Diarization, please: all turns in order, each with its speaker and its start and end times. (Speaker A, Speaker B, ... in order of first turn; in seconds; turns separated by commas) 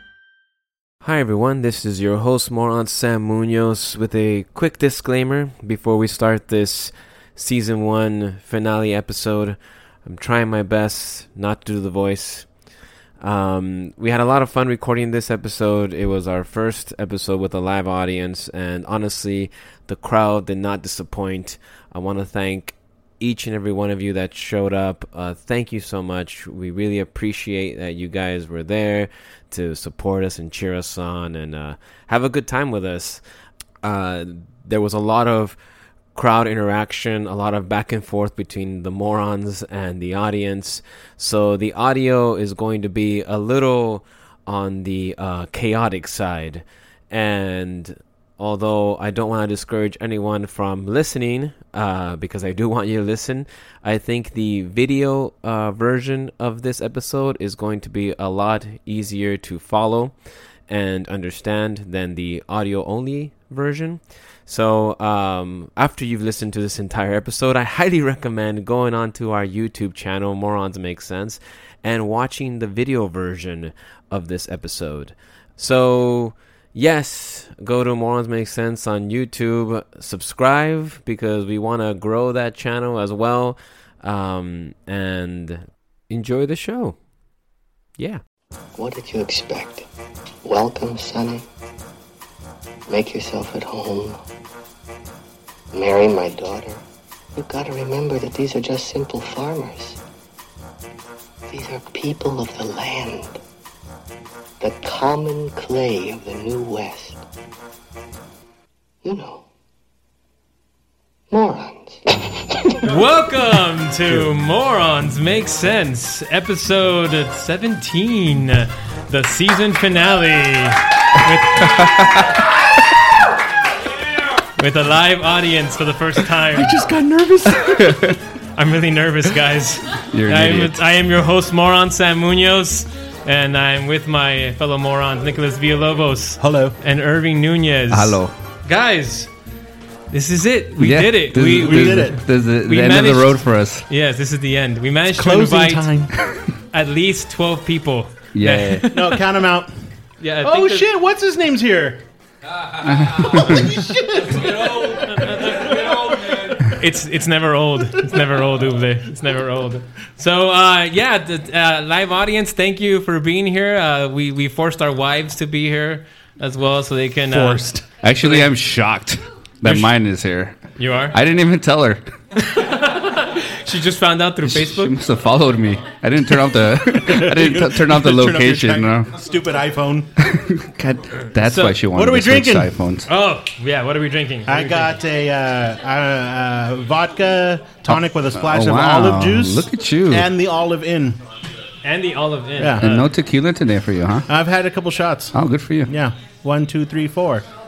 Speaker A: 1.0-33.2, Speaker A: 33.8-35.6, Speaker A: 36.1-87.0, Speaker B: 88.8-89.9, Speaker B: 90.4-91.5, Speaker B: 92.9-94.2, Speaker B: 95.7-96.8, Speaker B: 97.3-100.0, Speaker B: 101.5-103.4, Speaker B: 104.6-107.2, Speaker B: 109.0-109.4, Speaker B: 111.3-112.7, Speaker C: 112.9-121.8, Speaker C: 124.6-126.7, Speaker D: 126.5-128.0, Speaker E: 127.6-128.1, Speaker C: 128.6-139.3, Speaker E: 130.1-130.8, Speaker D: 136.4-136.7, Speaker E: 137.9-138.3, Speaker C: 140.1-142.1, Speaker E: 140.8-143.8, Speaker D: 141.5-142.2, Speaker C: 142.6-145.8, Speaker D: 145.2-146.1, Speaker C: 146.7-149.0, Speaker E: 148.3-148.9, Speaker D: 148.9-149.7, Speaker C: 150.2-150.8, Speaker D: 150.4-152.0, Speaker E: 152.9-153.6, Speaker D: 153.2-155.2, Speaker C: 155.1-155.6, Speaker C: 156.7-167.6, Speaker D: 167.3-167.8, Speaker E: 168.0-170.6, Speaker C: 168.2-168.5, Speaker C: 169.6-169.9, Speaker C: 170.8-171.2, Speaker E: 171.1-172.0, Speaker C: 172.4-174.9, Speaker E: 174.4-179.1, Speaker D: 177.1-180.1, Speaker E: 180.2-183.1, Speaker C: 181.4-181.8, Speaker D: 181.9-182.7, Speaker C: 183.1-184.9, Speaker D: 184.4-191.2, Speaker E: 187.8-190.3, Speaker C: 191.8-193.1, Speaker D: 192.6-192.8, Speaker E: 192.8-194.3, Speaker D: 194.3-195.3, Speaker E: 195.3-195.9, Speaker D: 195.9-197.4